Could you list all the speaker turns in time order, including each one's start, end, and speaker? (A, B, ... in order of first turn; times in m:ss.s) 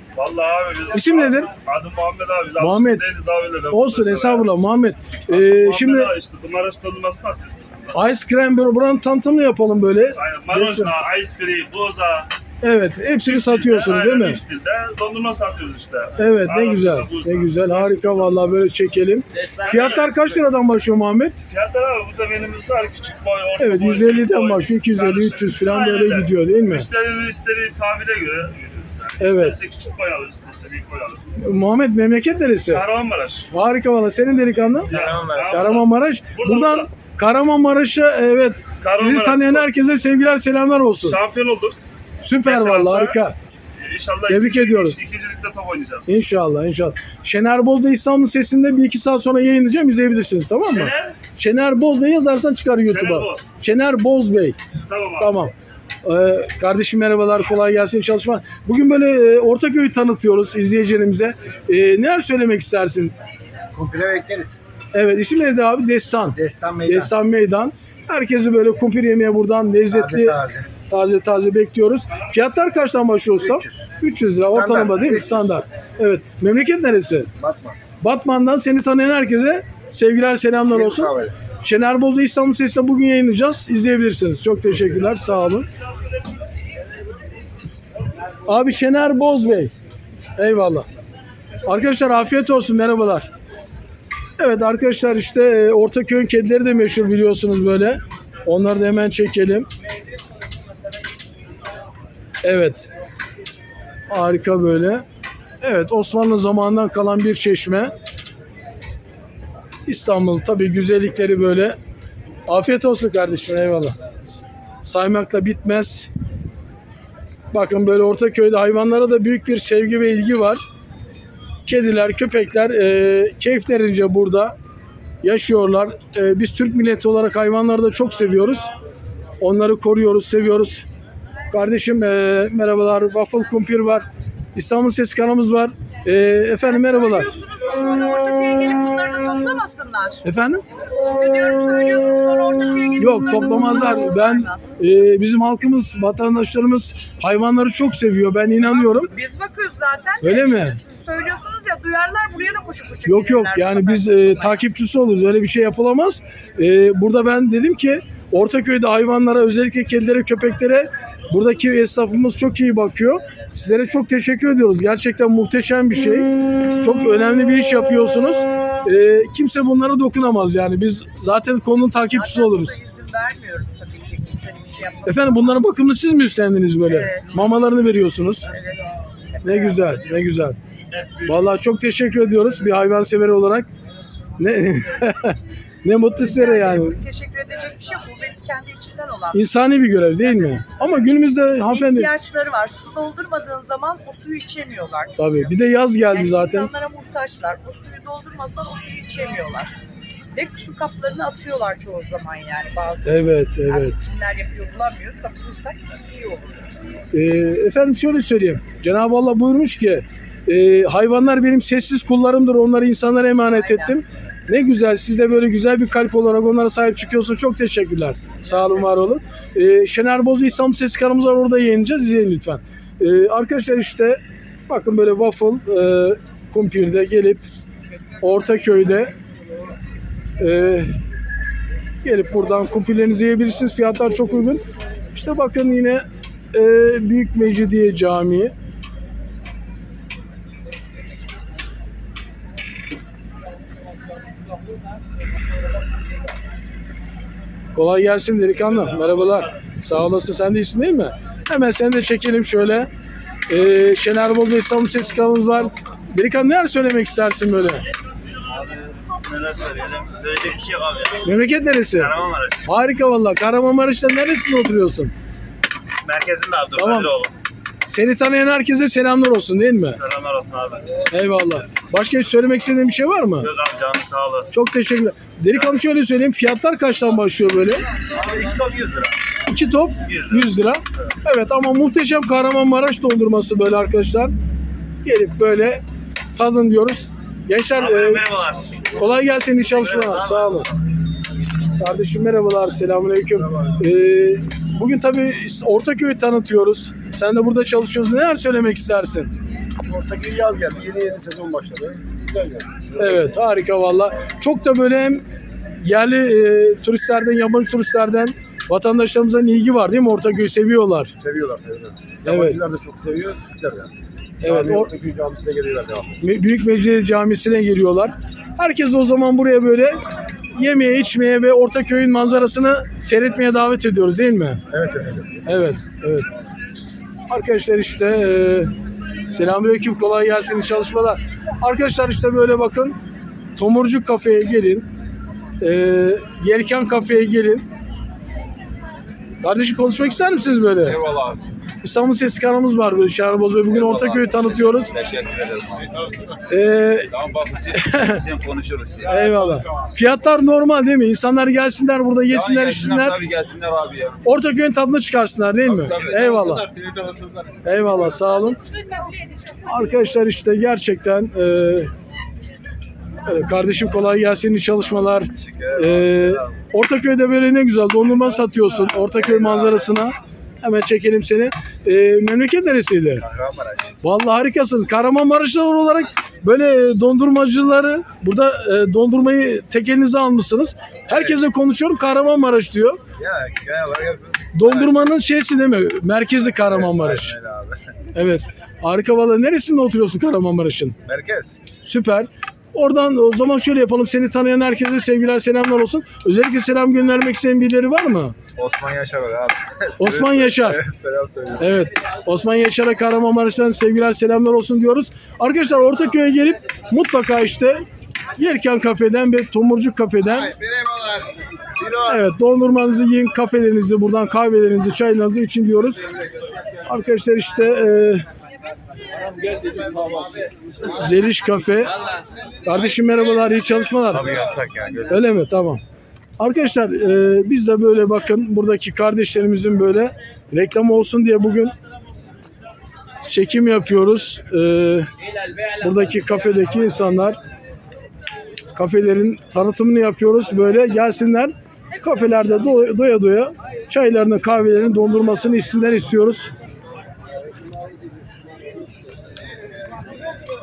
0:00.1-0:04.5 A
0:00.9-0:01.5 B
0:02.6-0:03.1 B
0:03.7-0:06.1 B
0:05.3-0:08.0 A
0:07.9-0:10.9 B
0:10.1-0:12.3 A
0:12.6-0:14.4 B
0:13.2-0:18.4 A
0:16.2-0:21.4 B
0:19.3-0:20.1 C
0:19.5-0:20.2 A
0:21.5-0:31.2 A
0:23.6-0:26.9 B
0:29.2-0:29.6 B
0:31.4-0:32.8 B
0:32.7-0:33.5 A
0:33.5-0:34.9 B
0:34.9-0:35.8 D
0:34.9-0:36.9 A
0:35.5-0:41.2 B
0:38.8-0:39.7 A
0:41.0-0:41.8 A
0:42.2-0:43.4 B
0:42.4-0:43.2 A
0:43.8-0:46.1 A
0:44.3-0:45.0 B
0:46.1-0:54.6 B
0:50.7-0:51.2 A
0:52.9-0:53.5 A
0:54.9-0:55.3 A
0:55.2-0:55.5 B
0:56.0-1:03.1 B
1:03.7-1:04.6 D
1:04.9-1:17.3 B
1:06.3-1:07.1 D
1:09.9-1:10.7 D
1:13.4-1:13.8 D
1:14.4-1:15.4 D
1:17.4-1:17.8 D
1:18.0-1:25.7 B
1:20.7-1:21.3 D
1:28.5-1:29.7 B
1:30.4-1:30.9 B
1:31.6-1:33.3 B
1:34.4-1:39.7 B
1:42.4-1:42.9 B
1:44.1-1:45.0 B
1:45.6-1:47.9 B
1:49.8-1:51.8 B
1:52.5-1:54.0 B
1:54.8-1:56.1 B
1:57.5-2:00.6 B
2:01.6-2:04.6 B
2:05.2-2:08.7 B
2:09.4-2:10.9 B
2:11.5-2:17.3 B
2:16.6-2:20.2 E
2:20.2-2:20.6 B
2:20.9-2:24.6 E
2:23.0-2:29.1 B
2:28.6-2:34.6 E
2:30.2-2:30.8 B
2:33.0-2:46.3 B
2:46.8-2:52.8 B
2:51.9-2:55.6 E
2:55.0-2:58.5 B
2:56.8-2:57.5 E
2:58.5-2:58.8 E
2:59.4-3:00.0 E
2:59.4-3:00.6 B
3:01.2-3:03.7 B
3:04.4-3:07.0 B
3:06.1-3:09.5 E
3:09.3-3:12.1 B
3:10.2-3:10.7 E
3:11.6-3:15.5 E
3:15.2-3:16.7 B
3:16.1-3:19.7 E
3:20.3-3:26.7 E
3:23.0-3:24.0 B
3:27.1-3:47.4 B
3:33.4-3:34.0 E
3:48.2-3:49.1 B
3:50.4-3:50.9 B
3:52.0-3:54.6 B
3:55.1-3:58.5 B
4:07.7-4:12.9 B
4:13.5-4:17.8 B
4:18.5-4:21.2 C
4:21.2-4:25.1 B
4:22.0-4:22.6 C
4:26.0-4:27.3 C
4:26.7-4:27.1 B
4:27.9-4:30.0 B
4:30.0-4:30.9 C
4:31.1-4:33.5 B
4:33.4-4:34.5 C
4:34.5-4:37.8 B
4:38.1-4:39.1 C
4:39.4-4:44.3 B
4:45.0-4:45.8 B
4:46.3-4:48.2 B
4:47.8-4:48.8 C
4:48.9-4:50.7 B
4:49.9-4:50.6 C
4:51.8-4:59.3 B
4:53.3-4:53.7 D
4:59.8-5:03.2 D
5:03.0-5:05.2 B
5:05.8-5:11.1 B
5:11.2-5:13.9 D
5:12.2-5:12.6 B
5:14.4-5:14.9 B
5:14.4-5:16.1 D
5:16.2-5:20.0 B
5:20.5-5:24.6 B
5:24.7-5:25.4 D
5:25.4-5:26.3 B
5:27.3-5:28.7 B
5:29.3-5:33.0 B
5:33.6-5:34.9 B
5:35.6-5:37.6 B
5:39.4-5:41.0 B
5:40.8-5:41.4 D
5:41.8-5:44.9 B
5:43.7-5:46.3 D
5:46.5-5:47.2 B
5:47.1-5:49.9 D
5:47.7-5:48.2 B
5:49.0-5:53.2 B
5:52.3-5:54.2 D
5:54.2-5:56.7 B
5:55.7-5:57.6 D
5:57.6-5:58.6 B
5:58.6-5:59.7 E
5:59.6-6:01.9 B
6:03.2-6:13.2 B
6:05.3-6:06.5 D
6:09.3-6:09.8 D
6:13.2-6:14.0 D
6:14.0-6:23.0 B
6:21.1-6:21.4 D
6:23.2-6:25.1 D
6:24.5-6:27.4 B
6:26.6-6:27.8 D
6:28.1-6:31.0 B
6:31.1-6:31.6 D
6:31.8-6:38.4 B
6:38.6-6:41.8 D
6:40.0-6:40.8 B
6:41.6-6:47.8 B
6:48.4-6:50.5 B
6:50.4-6:52.2 D
6:52.0-6:56.0 B
6:56.8-6:58.2 B
6:59.3-7:00.5 D
7:00.9-7:01.9 B
7:02.6-7:04.3 B
7:04.1-7:05.2 D
7:05.1-7:05.8 B
7:06.4-7:11.7 B
7:13.3-7:15.1 B
7:15.8-7:17.4 B
7:18.7-7:26.5 B